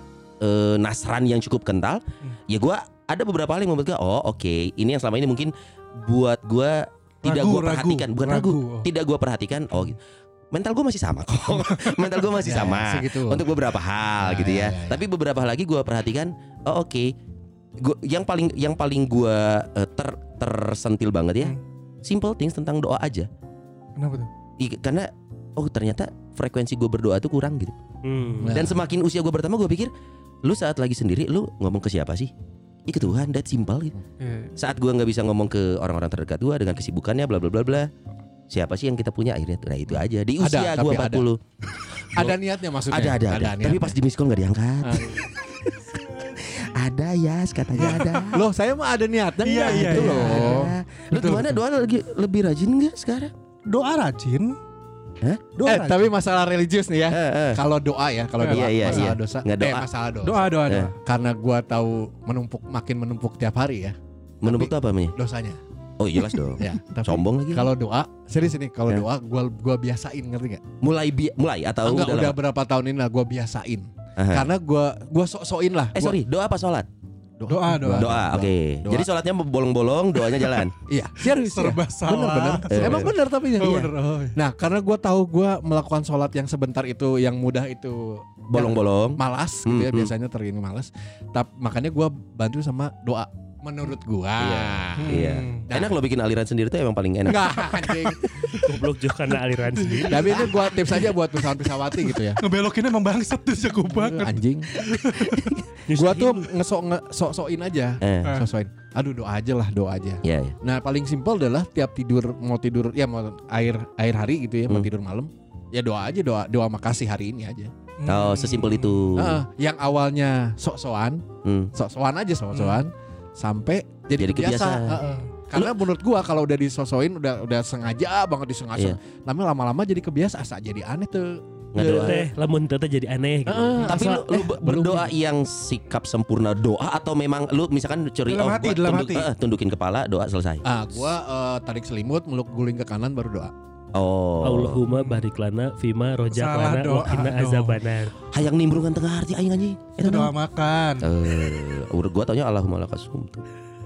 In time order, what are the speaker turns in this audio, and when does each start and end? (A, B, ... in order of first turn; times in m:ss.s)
0:00.4-0:10.0 A
0:07.2-0:08.9 B
0:10.5-0:17.1 A
0:12.4-0:13.5 C
0:14.2-0:15.0 C
0:17.8-0:23.3 A
0:24.0-0:24.3 B
0:24.6-0:27.8 A
0:28.0-0:28.6 D
0:28.4-0:28.8 C
0:28.5-0:29.9 A
0:30.4-0:32.3 A
0:32.9-0:34.0 A
0:34.2-0:34.5 B
0:34.6-0:37.9 A
0:38.5-0:41.4 A
0:40.4-0:41.3 C
0:42.1-0:44.0 C
0:42.9-0:48.4 A
0:44.8-0:45.3 C
0:47.8-0:48.3 B
0:48.3-0:50.7 C
0:49.4-0:51.6 B
0:49.7-0:53.3 A
0:53.7-0:54.6 B
0:55.2-0:55.5 A
0:55.6-0:56.1 B
0:55.6-1:05.6 C
0:57.1-0:57.6 A
0:58.4-0:59.1 B
0:58.5-0:59.9 A
1:00.2-1:00.9 B
1:00.6-1:00.9 A
1:04.4-1:05.2 A
1:06.0-1:07.7 A
1:06.6-1:10.6 C
1:10.8-1:12.4 A
1:11.8-1:16.2 C
1:14.2-1:14.5 A
1:16.0-1:16.9 A
1:17.4-1:19.1 C
1:17.5-1:18.2 B
1:17.9-1:20.8 A
1:20.8-1:36.0 C
1:21.4-1:24.4 B
1:22.7-1:23.1 A
1:28.5-1:30.1 A
1:34.4-1:37.7 A
1:35.0-1:35.6 B
1:37.2-1:38.6 C
1:38.4-1:38.6 B
1:38.6-1:40.5 D
1:39.8-1:41.1 B
1:40.0-1:42.4 C
1:42.4-1:45.5 B
1:44.0-1:44.7 C
1:45.9-1:46.4 D
1:45.9-1:57.7 C
1:48.0-1:48.4 A
1:50.2-1:50.6 A
1:58.0-1:59.1 B
1:58.1-1:59.4 A
1:59.2-2:12.3 C
2:01.4-2:01.7 A
2:04.2-2:05.0 A
2:11.7-2:12.2 A
2:11.9-2:13.9 D
2:13.5-2:15.1 C
2:13.8-2:20.7 A
2:18.3-2:19.3 B
2:20.6-2:23.5 C
2:23.9-2:24.8 A
2:24.4-2:28.2 D
2:24.9-2:25.2 B
2:26.3-2:27.8 B
2:28.3-2:30.3 A
2:30.0-2:31.1 B
2:31.0-2:33.4 A